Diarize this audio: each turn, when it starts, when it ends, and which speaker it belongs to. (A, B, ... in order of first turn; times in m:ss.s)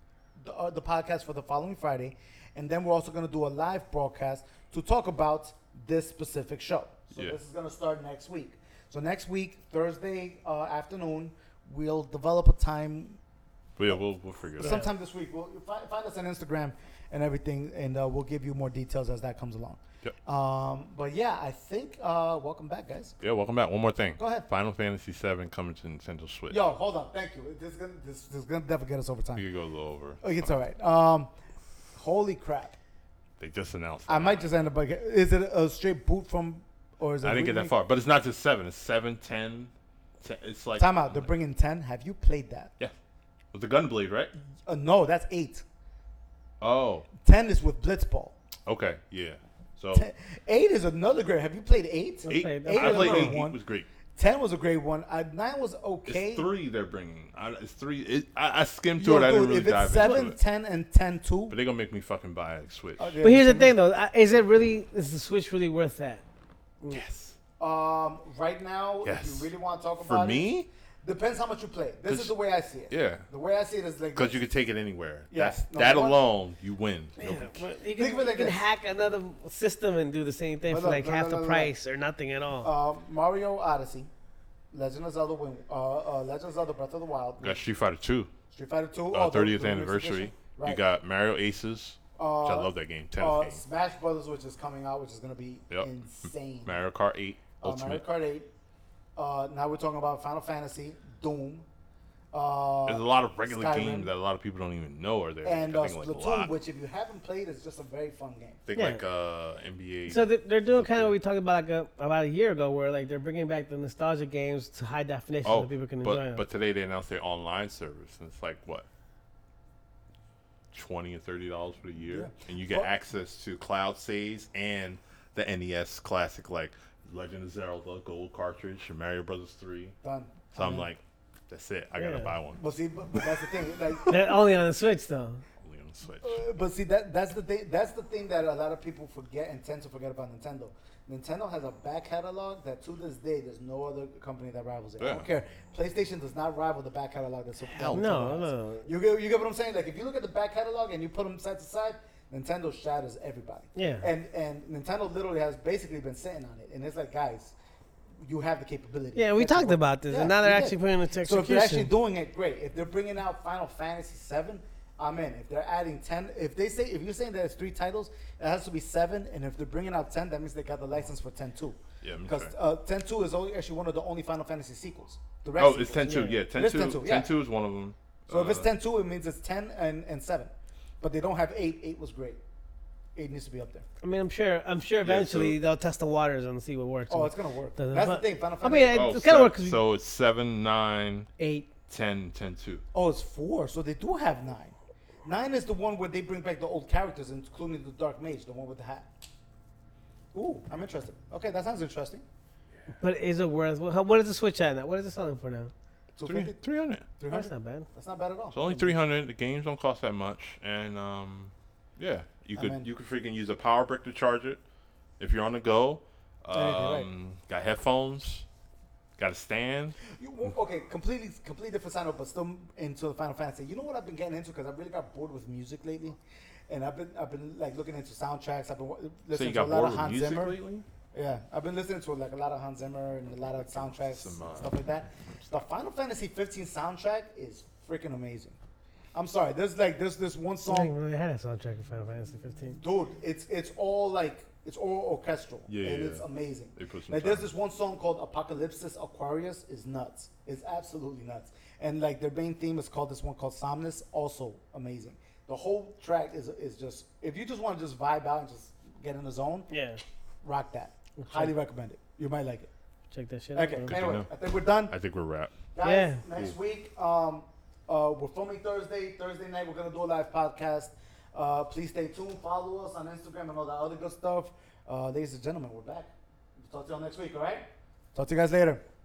0:00.4-0:13.2 A
0:13.8-0:14.8 B
0:14.6-0:23.2 A
0:23.2-0:26.6 B
0:24.2-0:24.4 A
0:26.5-0:29.4 A
0:29.4-0:30.5 B
0:30.2-0:31.3 A
0:31.9-0:32.8 A
0:33.4-0:34.5 B
0:34.1-0:37.7 A
0:37.2-0:41.3 B
0:40.8-0:42.7 A
0:43.5-0:44.3 B
0:44.6-0:45.6 A
0:46.6-0:47.1 B
0:47.2-0:48.4 A
0:48.6-0:50.1 B
0:49.9-0:53.6 A
0:52.2-0:53.4 C
0:52.3-0:53.9 B
0:54.1-0:56.5 A
0:56.1-1:00.4 B
0:59.0-1:01.6 A
1:01.5-1:03.2 B
1:03.0-1:03.7 A
1:03.2-1:06.2 C
1:06.9-1:07.4 B
1:07.6-1:10.5 A
1:09.0-1:10.7 B
1:11.0-1:14.4 A
1:12.1-1:12.3 B
1:12.9-1:13.2 B
1:14.2-1:17.6 B
1:15.3-1:16.2 A
1:17.2-1:22.7 C
1:18.0-1:18.6 A
1:20.7-1:21.7 A
1:22.6-1:24.1 A
1:24.7-1:27.6 A
1:27.4-1:28.3 B
1:28.5-1:30.8 A
1:29.1-1:33.6 B
1:32.2-1:36.8 A
1:35.7-1:38.0 B
1:37.6-1:38.5 A
1:39.2-1:41.6 A
1:42.3-1:44.1 A
1:42.9-1:46.5 B
1:45.4-1:48.6 A
1:48.6-1:51.2 B
1:48.8-1:49.0 C
1:50.1-1:56.4 C
1:55.4-1:58.8 B
2:00.7-2:10.0 B
2:02.1-2:02.9 A
2:10.0-2:10.9 A
2:10.5-2:12.6 B
2:12.0-2:12.3 C
2:12.6-2:14.4 A
2:14.1-2:15.4 C
2:15.6-2:16.4 B
2:16.2-2:37.5 A
2:25.0-2:25.3 B
2:27.6-2:28.2 B
2:27.9-2:28.9 C
2:33.8-2:34.1 C
2:38.2-2:57.3 A
2:39.2-2:41.9 C
2:52.0-2:52.5 B
2:55.6-2:58.7 B
2:56.0-2:56.4 C
2:58.3-3:02.4 A
3:03.1-3:03.8 A
3:04.0-3:09.8 C
3:05.0-3:05.6 B
3:07.1-3:09.1 A
3:08.9-3:11.3 B
3:11.4-3:11.7 C
3:11.9-3:12.8 B
3:12.9-3:19.1 A
3:20.3-3:22.2 A
3:23.0-3:25.7 C
3:26.2-3:29.0 A
3:26.2-3:27.0 B
3:27.3-3:27.9 C
3:28.5-3:34.6 B
3:32.5-3:32.9 A
3:35.2-3:38.4 B
3:36.5-3:37.1 A
3:39.2-3:40.0 B
3:40.0-3:46.2 A
3:46.7-3:50.6 A
3:49.3-3:50.8 B
3:51.1-3:58.6 A
3:53.5-3:55.6 B
3:59.1-4:00.9 A
4:00.6-4:02.8 C
4:02.8-4:19.7 A
4:05.7-4:07.5 B
4:19.7-4:20.0 C
4:20.4-4:22.7 A
4:21.2-4:21.5 C
4:23.1-4:24.0 C
4:23.5-4:24.9 A
4:23.8-4:24.3 B
4:24.9-4:25.6 B
4:25.7-4:38.8 A
4:25.8-4:26.2 C